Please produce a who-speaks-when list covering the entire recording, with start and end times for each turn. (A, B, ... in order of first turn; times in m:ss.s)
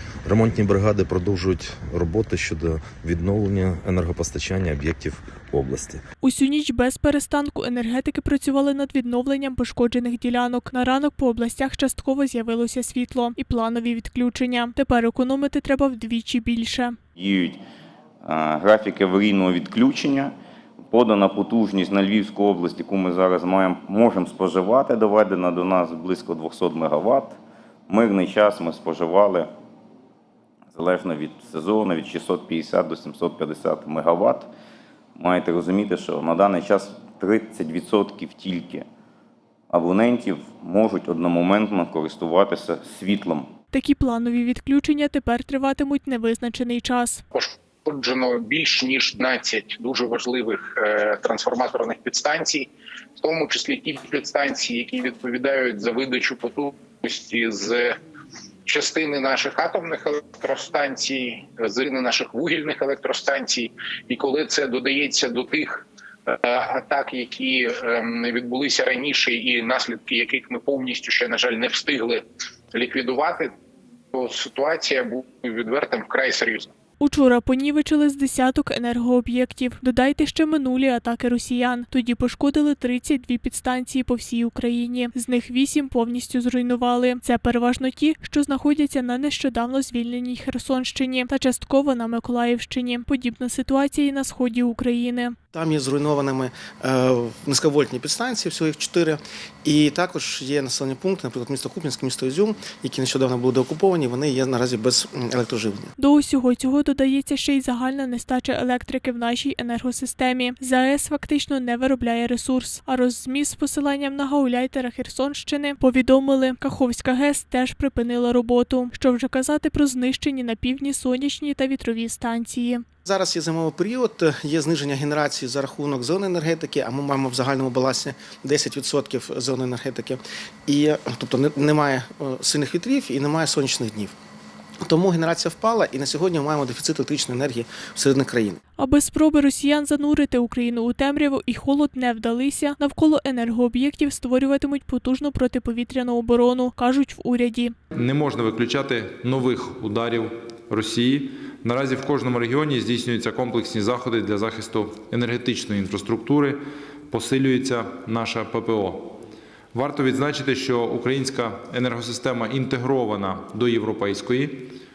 0:00.2-0:06.0 A
0:06.2-0:17.0 B
0:17.2-0:17.6 C
0:18.2-0:20.3 C
0:20.9-0:27.4 C
0:27.9-0:29.5 C
0:30.7-0:34.5 C
0:35.2-0:38.8 C
0:39.7-0:43.5 C
0:43.7-0:47.2 B
0:47.3-0:57.9 D
0:58.7-1:13.5 D
1:14.1-1:16.7 D
1:17.0-1:35.4 B
1:35.5-1:45.9 E
1:46.0-2:02.8 B
2:03.0-2:14.1 E
2:14.8-2:18.6 E
2:18.8-2:27.7 B
2:28.0-2:36.6 F
2:37.1-2:39.1 F
2:39.7-2:44.7 F